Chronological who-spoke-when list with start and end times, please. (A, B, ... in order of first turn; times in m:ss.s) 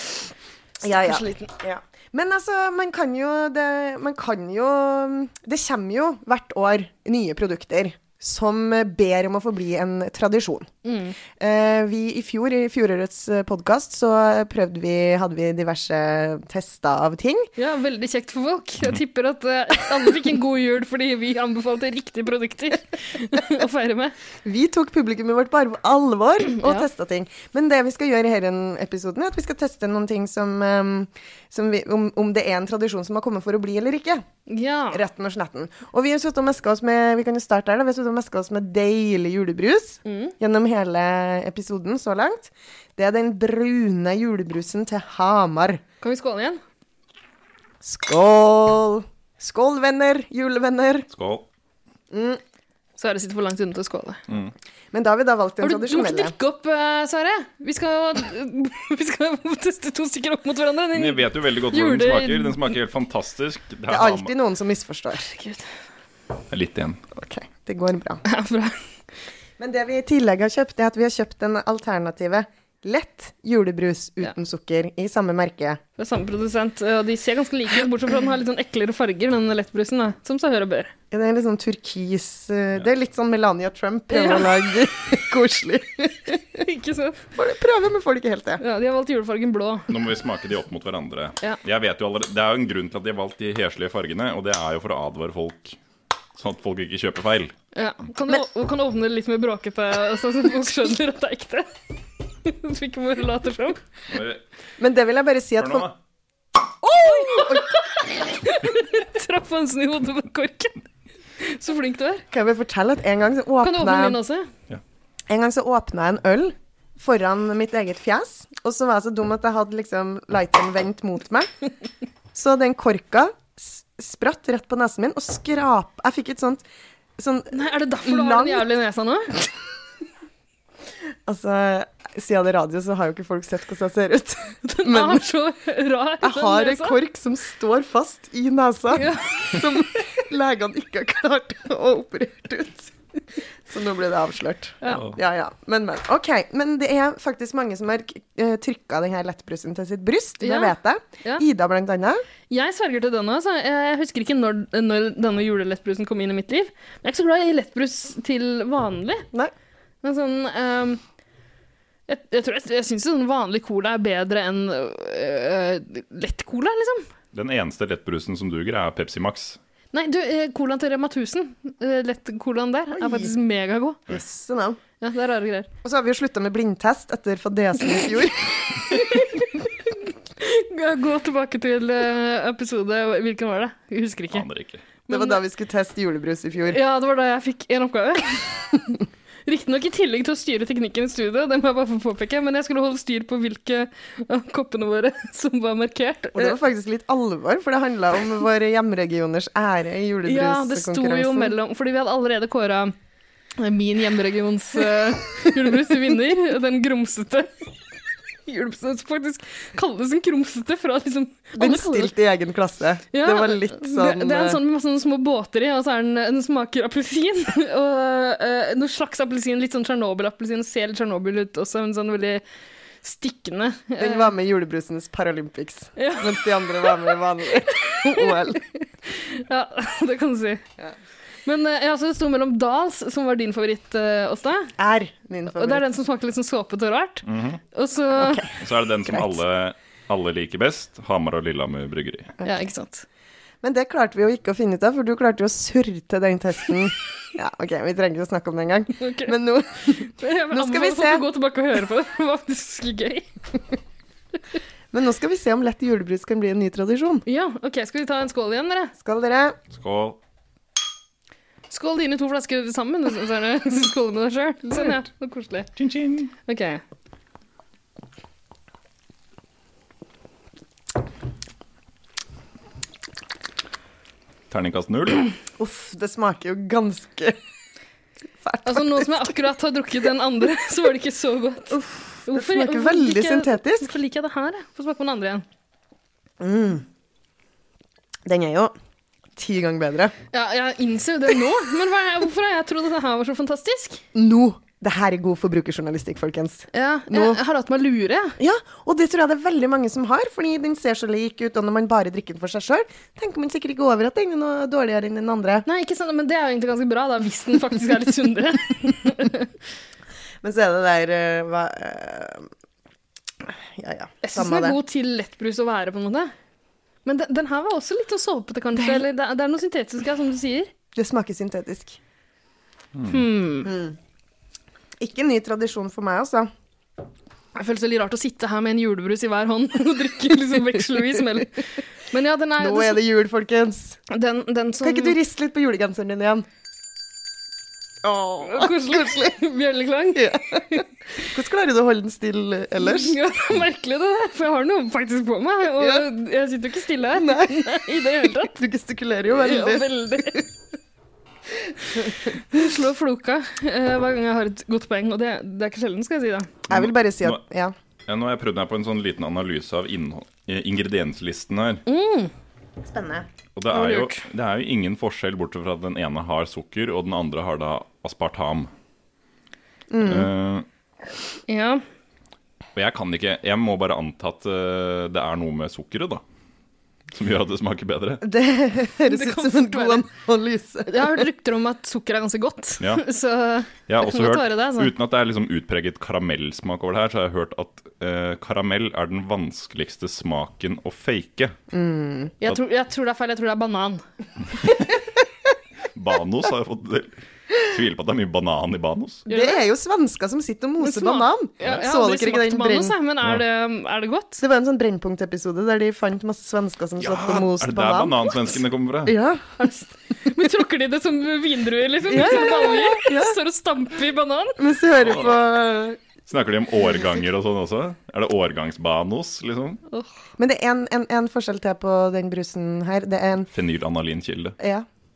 0:00.8-0:10.7 A
0:00.9-0:01.4 B
0:10.8-0:11.2 B
0:11.3-0:17.5 A
0:17.6-0:24.1 B
0:24.4-0:34.2 A
0:26.6-0:26.9 B
0:34.5-0:35.0 B
0:34.9-0:45.8 A
0:40.0-0:40.3 B
0:46.0-0:46.6 B
0:47.8-0:51.1 A
0:51.1-0:51.4 C
0:52.1-0:52.4 A
0:53.0-0:54.2 B
0:54.3-0:54.5 C
0:54.9-0:56.3 A
0:55.6-1:02.6 B
1:00.9-1:04.3 C
1:03.9-1:05.3 A
1:05.2-1:05.6 B
1:06.5-1:07.0 C
1:07.1-1:08.2 A
1:08.2-1:08.8 B
1:09.6-1:15.8 A
1:16.0-1:20.9 B
1:21.1-1:26.6 A
1:24.1-1:24.5 B
1:26.6-1:27.2 B
1:27.4-1:28.6 A
1:28.6-1:29.9 B
1:29.9-1:35.8 C
1:36.4-1:37.5 C
1:37.7-1:41.7 B
1:42.4-1:43.8 B
1:44.1-1:44.4 C
1:44.8-1:45.9 A
1:45.6-1:46.0 C
1:46.8-1:47.8 A
1:47.0-1:50.8 B
1:51.4-1:52.2 B
1:52.3-1:54.2 A
1:53.6-1:54.5 B
1:55.3-2:01.5 A
2:02.3-2:06.6 A
2:07.2-2:08.7 A
2:07.5-2:09.4 B
2:11.2-2:15.3 A
2:14.6-2:17.0 B
2:16.2-2:22.9 A
2:18.9-2:19.6 B
2:23.6-2:32.2 A
2:24.9-2:25.2 C
2:30.4-2:31.4 B
2:32.5-2:39.3 B
2:40.0-2:41.0 B
2:42.1-2:47.1 B
2:47.3-2:49.6 C
2:49.9-2:54.0 B
2:52.9-2:53.3 A
2:54.1-2:54.8 A
2:55.0-2:55.7 B
2:55.8-2:59.2 A
2:58.9-2:59.5 B
3:00.4-3:04.4 B
3:04.3-3:04.8 C
3:05.1-3:05.4 B
3:05.1-3:06.8 A
3:06.7-3:16.6 B
3:16.3-3:21.5 A
3:20.2-3:22.9 B
3:23.6-3:27.5 B
3:28.5-3:32.1 B
3:31.5-3:34.6 A
3:33.1-3:42.4 B
3:43.0-3:44.3 B
3:44.0-3:48.6 A
3:46.0-3:50.6 B
3:51.4-3:54.7 B
3:54.8-3:55.9 A
3:55.5-3:58.4 B
3:57.2-3:57.6 C
3:58.2-3:59.4 A
3:58.6-4:02.3 C
4:02.4-4:03.0 B
4:03.6-4:11.2 A
4:09.0-4:09.3 B
4:09.9-4:13.3 B
4:14.9-4:17.2 A
4:17.2-4:18.9 B
4:19.0-4:19.6 A
4:19.7-4:20.2 C
4:21.7-4:25.7 B
4:25.8-4:26.3 C
4:26.4-4:26.8 B
4:34.5-4:35.3 C
4:35.6-4:37.4 A
4:38.4-4:39.3 A
4:38.6-4:45.4 B
4:41.7-4:43.9 A
4:46.4-4:46.8 A
4:48.2-4:48.7 A
4:49.4-4:50.1 A
4:50.3-4:54.0 B
4:54.1-4:57.4 A
4:56.7-4:58.4 B
4:58.4-5:05.6 A
5:05.6-5:09.5 B
5:10.4-5:12.5 A
5:13.4-5:14.8 A
5:14.2-5:16.3 B
5:17.0-5:20.7 B
5:18.8-5:19.0 A
5:20.9-5:22.0 A
5:23.0-5:23.2 C
5:23.1-5:23.7 B
5:23.6-5:24.0 A
5:25.0-5:26.5 A
5:27.5-5:33.0 B
5:32.6-5:34.0 A
5:34.1-5:35.2 B
5:34.8-5:36.5 A
5:38.0-5:39.4 A
5:38.4-5:40.9 B
5:40.1-5:43.2 A
5:42.8-5:48.5 B
5:45.8-5:46.0 A
5:47.1-5:50.4 A
5:49.3-5:50.4 B
5:52.0-5:56.5 B
5:56.7-5:57.7 A
5:56.7-5:57.4 C
5:58.1-6:01.8 C
6:01.8-6:02.3 B
6:02.8-6:03.3 A
6:03.6-6:08.7 C
6:03.7-6:04.2 B
6:09.9-6:10.3 A
6:10.0-6:10.6 C
6:11.5-6:11.8 B
6:12.7-6:16.2 C
6:17.1-6:18.2 C
6:18.2-6:21.2 A
6:19.1-6:20.0 B
6:20.9-6:24.9 B
6:23.9-6:31.6 C
6:31.7-6:32.3 A
6:32.4-6:34.0 B
6:35.9-6:39.2 C
6:39.3-6:39.6 B
6:39.3-6:43.0 A
6:40.8-6:44.4 B
6:44.4-6:49.5 A
6:47.0-6:49.2 C
6:49.6-6:54.6 B
6:52.1-6:53.4 A
6:54.6-6:56.0 A
6:55.0-6:55.4 C
6:56.3-6:59.8 C
7:00.4-7:03.5 A
7:03.5-7:04.6 C
7:04.6-7:04.9 A